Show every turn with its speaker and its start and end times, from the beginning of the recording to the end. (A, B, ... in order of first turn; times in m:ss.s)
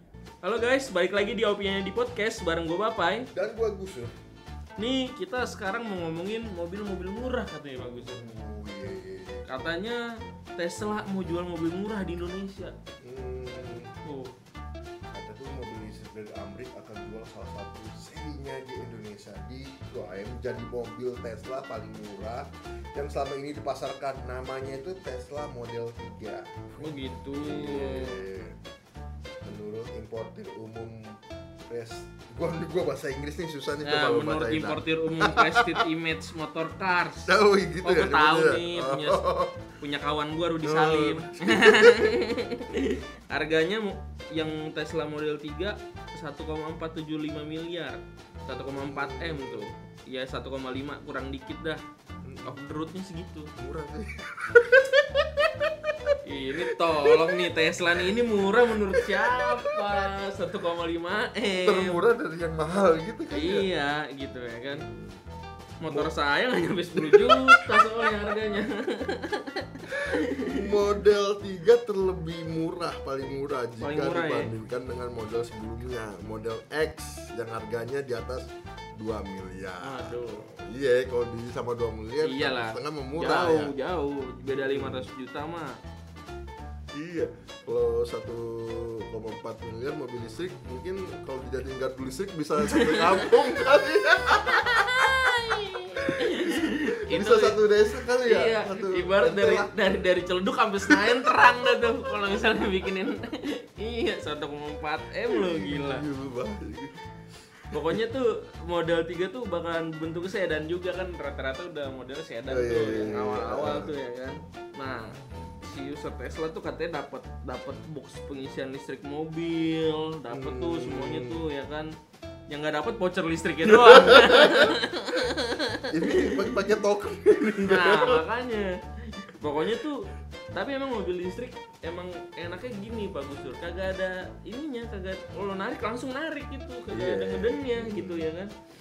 0:00.4-0:03.3 A
0:03.3-0:04.2 B
0:04.8-0:08.4 A
0:08.0-0:09.6 B
0:09.5-0:10.0 A
0:10.6-0:12.8 A
0:13.0-0:14.0 B
0:14.0-0:14.3 A
0:15.1-0:28.6 B
0:26.8-0:28.2 A
0:29.4-0:35.9 B
0:33.8-0:51.8 A
0:37.2-0:39.6 B
0:40.6-0:42.2 B
0:48.5-0:49.7 B
0:52.2-0:52.6 B
0:52.4-0:53.5 A
0:53.6-1:00.1 B
0:56.2-1:02.0 A
1:01.4-1:03.7 B
1:03.3-1:04.9 A
1:04.7-1:05.2 B
1:05.8-1:10.7 A
1:05.9-1:06.1 B
1:06.9-1:08.4 B
1:10.0-1:23.7 B
1:13.8-1:14.5 A
1:19.8-1:20.5 A
1:22.2-1:25.8 A
1:24.4-1:25.1 B
1:26.9-1:39.8 B
1:32.6-1:33.4 A
1:34.4-1:37.6 A
1:38.2-1:46.1 A
1:40.8-1:42.4 B
1:45.2-1:47.0 B
1:47.6-1:48.0 B
1:47.7-2:01.9 A
1:52.5-1:54.0 B
2:00.3-2:01.4 B
2:02.5-2:06.7 A
2:03.6-2:04.8 B
2:05.9-2:08.2 B
2:07.7-2:18.5 A
2:16.9-2:18.3 B